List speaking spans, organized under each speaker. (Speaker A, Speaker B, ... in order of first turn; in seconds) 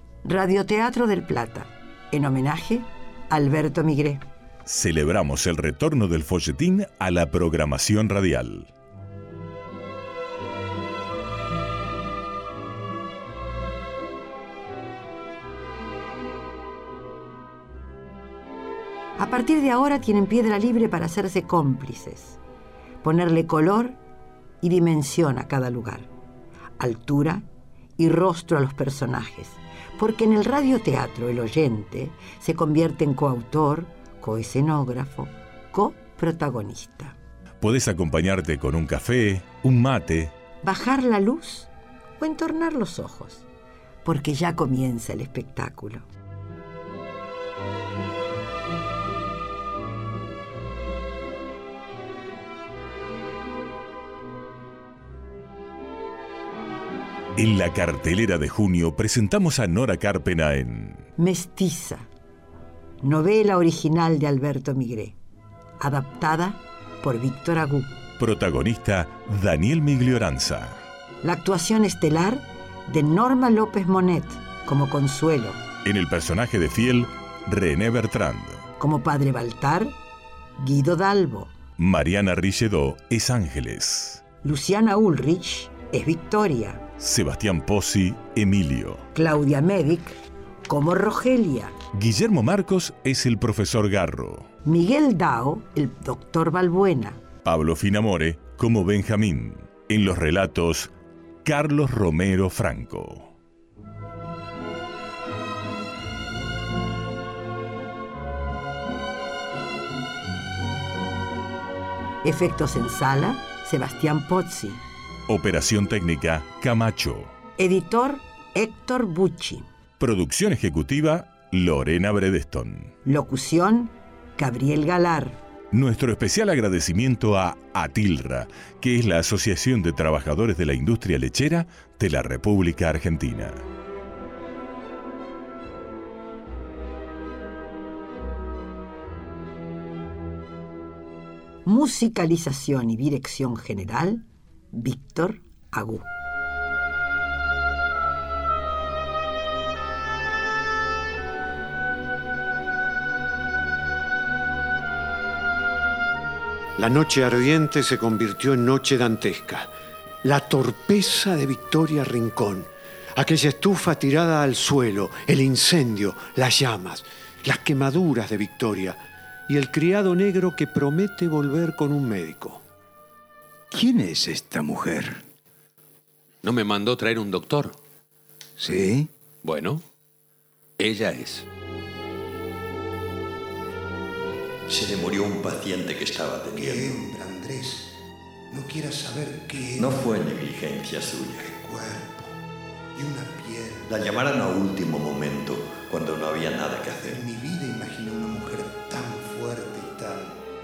Speaker A: 0.2-4.2, 19.2-22.4, 23.0-24.0, 24.6-26.1, 26.8-27.4, 28.0-37.1, 40.6-43.4, 44.0-46.0, 61.2-62.1, 63.0-65.2, 65.8-67.9, 71.2-75.6, 78.8-79.9, 80.6-81.5, 84.4-86.8, 89.2-90.2, 90.7-91.8, 94.7-97.2, 112.2-114.8, 117.6-119.7, 123.0-125.4, 141.7-146.1
Speaker B: 4.7-8.7, 37.6-40.3, 57.4-61.0, 68.2-70.8, 75.8-78.7, 81.8-84.2, 87.0-89.1, 91.9-94.5, 97.4-100.9, 101.4-103.3, 115.3-117.3, 120.0-122.9, 125.7-133.6
Speaker C: 156.8-159.7, 160.2-172.6
Speaker D: 173.7-175.2, 178.6-179.1
Speaker E: 176.4-177.8, 179.4-179.8, 180.8-181.5
Speaker F: 184.7-187.0, 189.8-191.5, 193.9-197.2
Speaker G: 186.5-187.9, 188.5-190.3, 191.4-192.3, 192.9-194.2, 197.0-200.4